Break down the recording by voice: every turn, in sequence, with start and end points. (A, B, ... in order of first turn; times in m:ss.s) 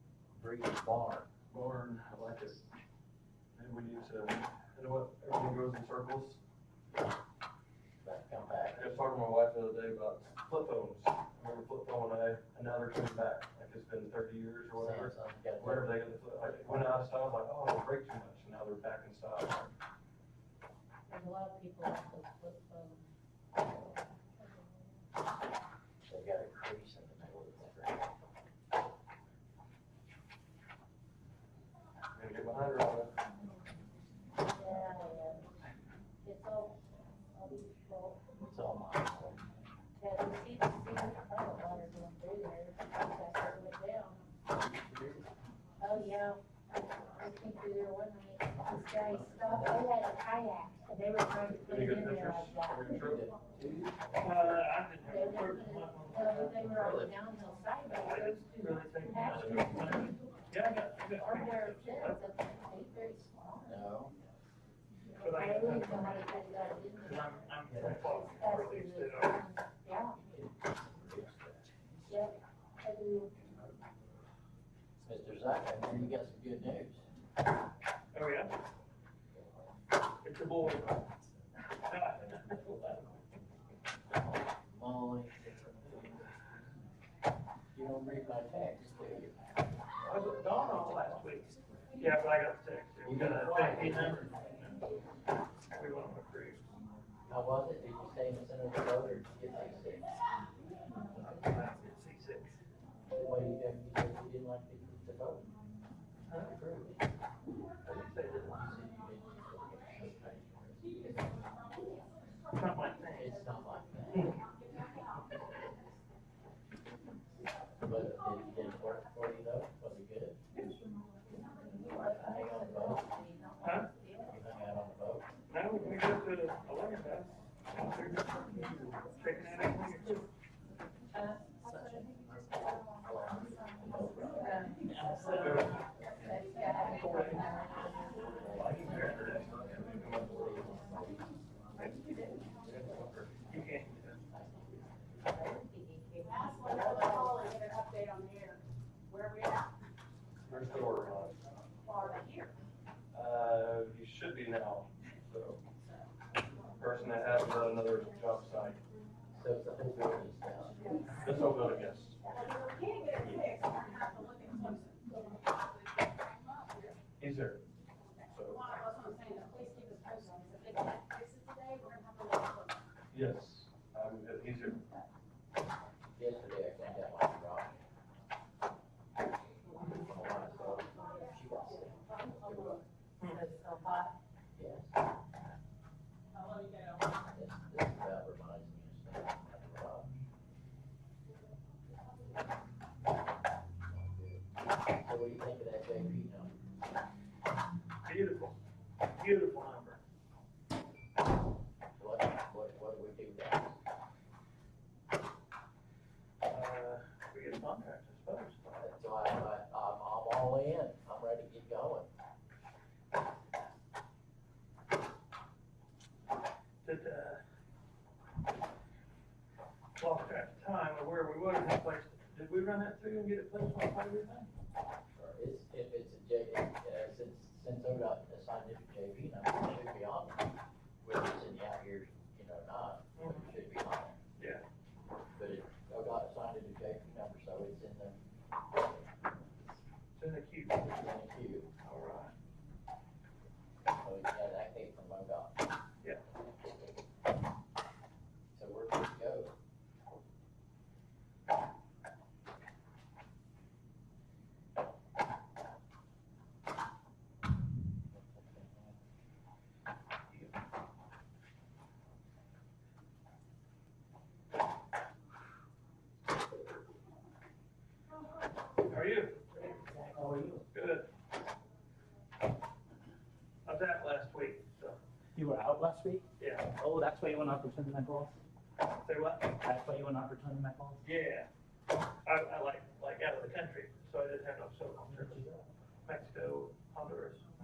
0:00.3-0:01.3 A
0:01.5-0:02.7 B
0:03.5-0:06.4 B
0:08.0-0:09.0 A
0:08.7-0:19.7 B
0:14.8-0:17.0 A
0:21.1-0:25.0 C
0:26.1-0:28.1 A
0:32.1-0:33.1 B
0:34.5-0:35.5 C
0:36.2-0:38.2 C
0:38.4-0:39.4 A
0:40.0-0:44.3 C
0:44.5-0:45.4 A
0:45.8-0:53.0 C
0:49.1-0:49.9 A
0:51.6-0:53.2 B
0:52.8-0:54.6 A
0:54.2-0:57.1 D
0:55.0-1:00.2 C
0:57.9-1:02.2 D
0:59.3-0:59.9 B
1:01.1-1:03.9 C
1:03.6-1:04.1 A
1:05.2-1:06.3 D
1:05.2-1:10.3 C
1:07.0-1:09.4 D
1:10.2-1:11.7 A
1:12.1-1:13.3 C
1:15.0-1:17.0 A
1:18.1-1:18.5 D
1:20.2-1:21.0 D
1:21.8-1:23.2 D
1:24.1-1:26.0 A
1:27.7-1:29.3 A
1:30.0-1:34.7 D
1:30.1-1:31.2 A
1:33.0-1:34.4 A
1:35.7-1:36.7 D
1:37.3-1:40.2 A
1:41.0-1:42.6 D
1:43.1-1:45.5 A
1:46.3-1:47.0 D
1:47.8-1:48.8 D
1:48.5-1:51.2 A
1:50.8-1:52.4 E
1:52.5-1:53.3 D
1:53.1-1:54.3 A
1:54.2-1:55.2 E
1:57.8-2:00.4 A
2:00.5-2:00.8 D
2:01.6-2:04.4 C
2:01.9-2:03.1 A
2:03.6-2:03.9 D
2:04.3-2:05.3 A
2:05.5-2:10.3 D
2:11.1-2:11.6 C
2:13.0-2:14.4 A
2:14.4-2:15.7 C
2:14.9-2:15.8 D
2:15.3-2:15.8 B
2:16.2-2:18.8 C
2:16.8-2:17.5 D
2:18.3-2:19.0 A
2:18.5-2:20.8 B
2:18.6-2:19.4 D
2:19.9-2:21.3 A
2:21.8-2:22.0 D
2:22.5-2:23.4 B
2:23.4-2:24.2 D
2:24.3-2:24.8 A
2:25.2-2:27.4 C
2:26.2-2:29.8 E
2:30.4-2:31.4 B
2:31.8-2:32.5 E
2:33.1-2:35.6 B
2:36.8-2:38.8 B
2:39.3-2:41.0 A
2:41.2-2:42.2 B
2:42.3-2:46.9 E
2:47.2-2:47.6 B
2:48.3-2:48.8 B
2:48.5-2:52.9 E
2:53.1-2:54.9 B
2:56.2-2:57.8 A
2:59.8-3:02.8 A
3:03.2-3:03.4 D
3:03.2-3:04.1 C
3:04.5-3:05.0 A
3:06.3-3:07.1 E
3:07.3-3:10.1 A
3:13.8-3:14.4 A
3:15.0-3:16.5 A
3:18.0-3:18.5 D
3:19.2-3:20.0 D
3:22.0-3:23.8 A
3:26.4-3:28.9 D
3:28.8-3:32.1 A
3:36.8-3:37.4 D
3:40.0-3:44.5 D
3:45.1-3:50.5 A
3:51.0-3:54.2 A
3:53.2-3:53.5 D
3:54.4-3:54.6 D
3:55.4-3:58.2 A
4:00.2-4:00.8 D
4:00.7-4:01.7 A
4:01.8-4:02.3 D
4:03.9-4:05.6 A
4:08.5-4:09.5 A
4:18.1-4:19.0 A
4:28.9-4:29.6 D
4:29.7-4:30.6 F
4:30.7-4:31.1 D
4:33.6-4:35.0 D
4:35.4-4:38.4 F
4:36.4-4:36.7 D
4:39.0-4:39.6 D
4:39.6-4:41.0 F
4:41.0-4:41.5 D
4:42.2-4:45.5 D
4:45.2-4:45.6 F
4:46.0-4:47.4 D